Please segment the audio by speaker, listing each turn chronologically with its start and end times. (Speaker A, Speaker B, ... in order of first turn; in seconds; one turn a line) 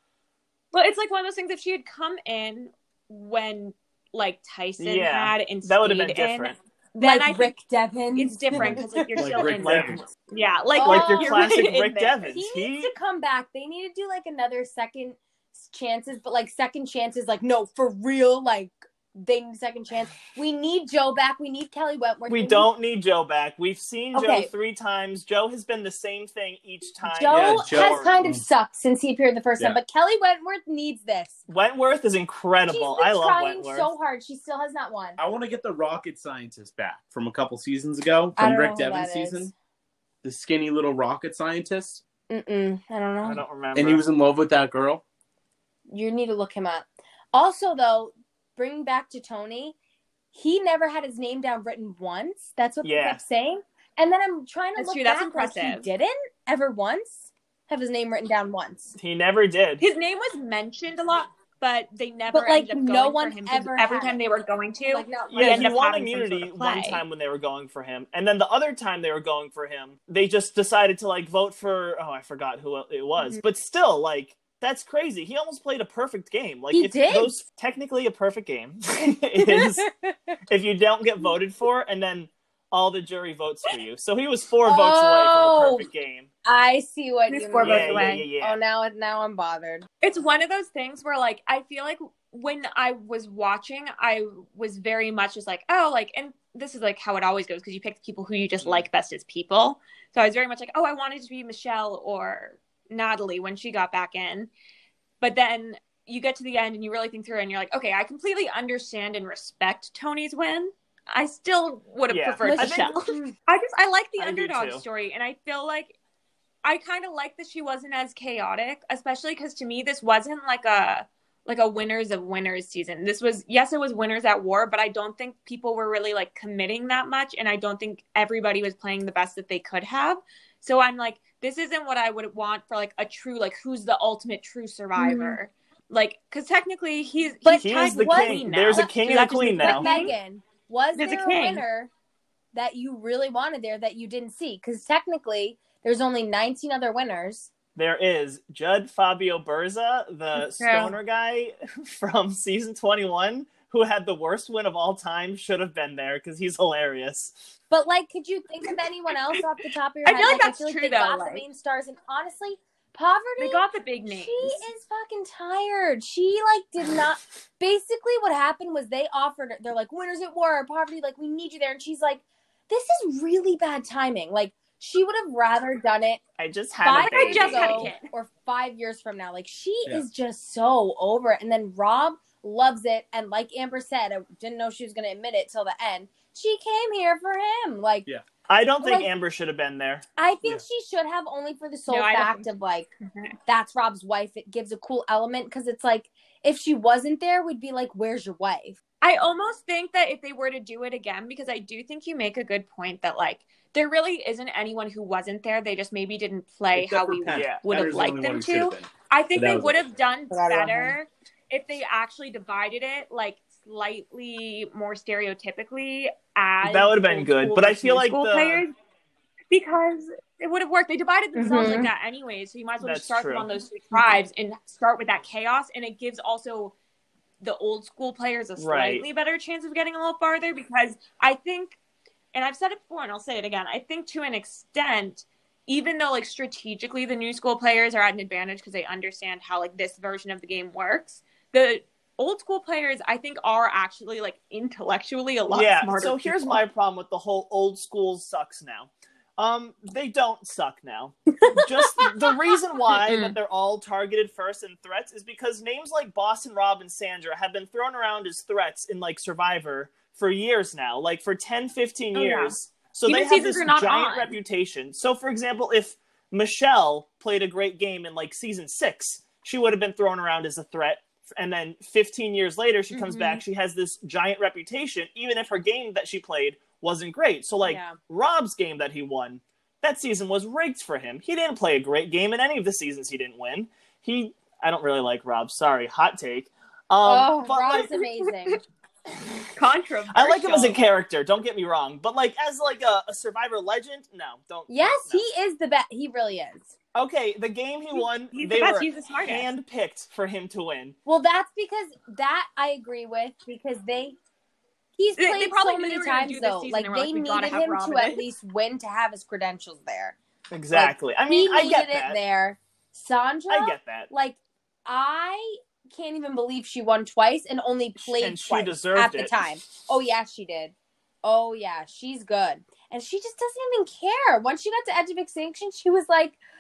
Speaker A: 0.7-7.5
Speaker B: 4.8-6.6
Speaker C: 7.0-9.6
Speaker A: 8.2-12.4
Speaker D: 8.5-10.0
Speaker B: 9.6-10.0
Speaker C: 10.8-11.7
Speaker B: 10.8-12.9
Speaker C: 12.3-22.7
Speaker B: 22.3-28.1
Speaker C: 24.1-24.5
Speaker C: 27.0-31.4
Speaker D: 27.3-28.4
Speaker B: 31.5-33.9
Speaker C: 32.7-35.2
Speaker D: 35.2-39.5
Speaker C: 38.4-39.5
Speaker D: 40.2-42.0
Speaker C: 42.3-43.4
Speaker B: 43.2-44.0
Speaker D: 43.8-45.0
Speaker C: 45.9-49.8
Speaker C: 50.3-59.0
Speaker B: 52.8-53.2
Speaker A: 54.8-55.9
Speaker B: 59.0-59.8
Speaker A: 59.8-67.0
Speaker C: 62.3-64.2
Speaker C: 64.9-65.8
Speaker B: 65.3-79.9
Speaker C: 76.7-77.3
Speaker C: 79.4-80.4
Speaker B: 80.5-86.3
Speaker C: 84.7-85.9
Speaker C: 86.5-89.9
Speaker A: 87.3-88.3
Speaker B: 87.6-88.6
Speaker A: 90.0-104.5
Speaker A: 105.2-116.0
Speaker B: 112.1-112.9
Speaker C: 112.4-113.4
Speaker B: 114.2-114.8
Speaker A: 116.6-140.1
Speaker C: 135.0-135.4
Speaker C: 137.4-141.9
Speaker B: 137.6-139.9
Speaker A: 141.0-141.6
Speaker C: 142.5-147.5
Speaker B: 147.8-157.4
Speaker A: 150.4-151.0
Speaker C: 157.7-176.2
Speaker A: 160.1-161.4
Speaker A: 163.4-164.6
Speaker B: 176.4-177.9
Speaker C: 176.8-188.1
Speaker A: 177.0-178.1
Speaker B: 188.5-190.0
Speaker C: 188.8-189.1
Speaker C: 190.2-192.9
Speaker A: 191.9-192.5
Speaker A: 193.0-193.3
Speaker C: 193.5-198.8
Speaker A: 199.0-218.7
Speaker D: 206.8-210.0
Speaker B: 207.3-207.6
Speaker C: 210.3-211.0
Speaker B: 216.6-218.7
Speaker A: 219.5-226.8
Speaker C: 221.3-221.9
Speaker B: 222.8-223.5
Speaker A: 227.4-231.8
Speaker B: 228.6-229.0
Speaker A: 232.3-246.6
Speaker B: 245.5-287.9
Speaker C: 251.6-252.1
Speaker A: 253.0-253.4
Speaker A: 262.1-264.3
Speaker A: 272.9-273.4
Speaker C: 277.6-278.0
Speaker C: 287.0-288.6
Speaker A: 288.0-288.6
Speaker A: 289.5-290.8
Speaker B: 290.1-295.2
Speaker C: 294.7-296.7
Speaker B: 296.9-301.0
Speaker A: 297.9-299.5
Speaker C: 301.1-304.2
Speaker C: 305.0-310.1
Speaker A: 305.2-308.3
Speaker B: 310.5-312.2
Speaker C: 310.7-326.4
Speaker B: 313.5-314.1
Speaker B: 318.0-319.4